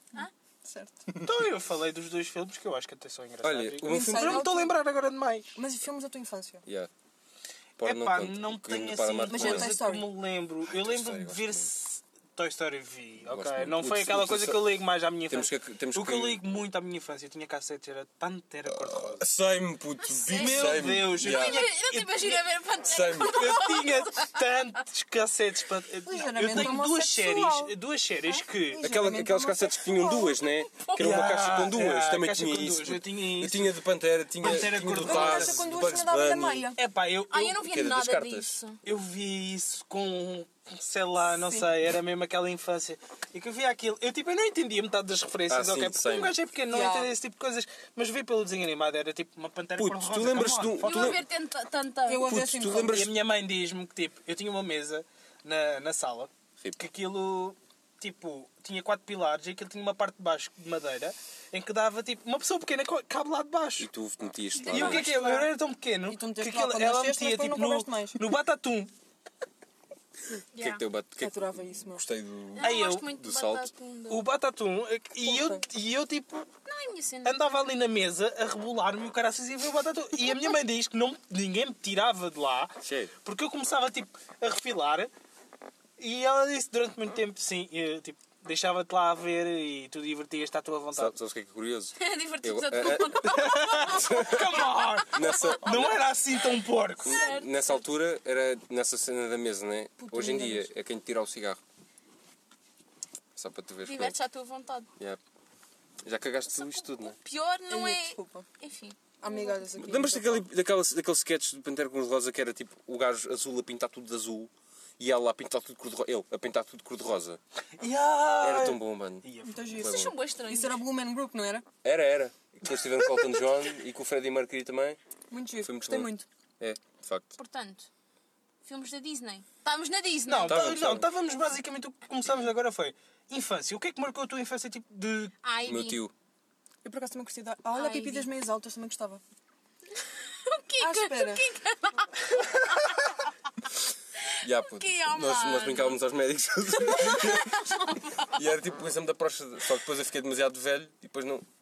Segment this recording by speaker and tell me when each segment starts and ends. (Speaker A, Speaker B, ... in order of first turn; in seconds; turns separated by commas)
Speaker A: 0.1-1.0, Speaker B: 1.1-1.4, Speaker C: 1.2-5.5, Speaker B: 3.4-4.5, Speaker A: 3.9-4.7, Speaker A: 5.5-6.7, Speaker B: 7.8-9.8, Speaker C: 7.8-19.2, Speaker A: 9.3-10.1, Speaker B: 10.7-11.7, Speaker B: 13.2-14.8, Speaker B: 15.3-16.4, Speaker B: 18.7-21.7, Speaker D: 20.0-24.4, Speaker C: 20.3-22.5, Speaker B: 22.8-23.5, Speaker C: 23.2-28.8, Speaker A: 26.1-27.7, Speaker A: 28.6-30.4, Speaker B: 28.8-36.7, Speaker D: 30.7-31.0, Speaker C: 31.0-33.7, Speaker C: 34.4-35.6, Speaker A: 35.0-36.8, Speaker C: 36.8-37.6, Speaker D: 37.3-38.8, Speaker B: 37.6-38.6, Speaker C: 38.8-51.2, Speaker A: 41.3-41.7, Speaker B: 45.5-46.4, Speaker A: 46.7-47.1, Speaker B: 49.8-51.2, Speaker D: 50.8-52.3, Speaker A: 52.1-53.0, Speaker B: 52.2-53.1, Speaker C: 52.8-63.9, Speaker B: 63.8-65.1, Speaker D: 64.6-65.5, Speaker C: 64.7-68.9, Speaker A: 65.0-65.4, Speaker A: 66.1-68.2, Speaker D: 70.5-70.8, Speaker B: 70.6-73.7, Speaker A: 71.2-72.0, Speaker D: 72.6-74.3, Speaker C: 72.6-73.1, Speaker C: 74.1-76.5, Speaker A: 75.2-75.6, Speaker D: 76.7-77.4, Speaker C: 77.2-85.1, Speaker B: 82.8-83.1, Speaker C: 86.0-91.1, Speaker B: 90.9-96.1, Speaker D: 92.0-96.0, Speaker C: 93.2-97.2, Speaker B: 97.0-101.6, Speaker D: 97.0-97.8, Speaker A: 100.0-100.7, Speaker B: 103.4-104.2, Speaker D: 103.8-104.9, Speaker B: 106.0-107.2, Speaker D: 106.5-109.7, Speaker A: 107.7-108.5, Speaker A: 109.2-110.4, Speaker B: 109.8-117.4, Speaker C: 117.8-119.7, Speaker B: 118.4-120.2, Speaker A: 119.4-121.7, Speaker D: 119.8-120.8, Speaker B: 121.8-125.0, Speaker A: 125.3-126.3, Speaker B: 125.6-127.4, Speaker D: 127.4-127.9, Speaker D: 128.7-130.8, Speaker C: 130.3-135.4, Speaker B: 130.4-131.1, Speaker D: 135.4-136.0, Speaker B: 135.6-136.1, Speaker A: 136.8-139.2, Speaker D: 137.7-138.3, Speaker D: 140.3-143.3, Speaker A: 140.8-141.4, Speaker D: 144.2-146.0, Speaker B: 144.4-151.4, Speaker D: 146.8-148.3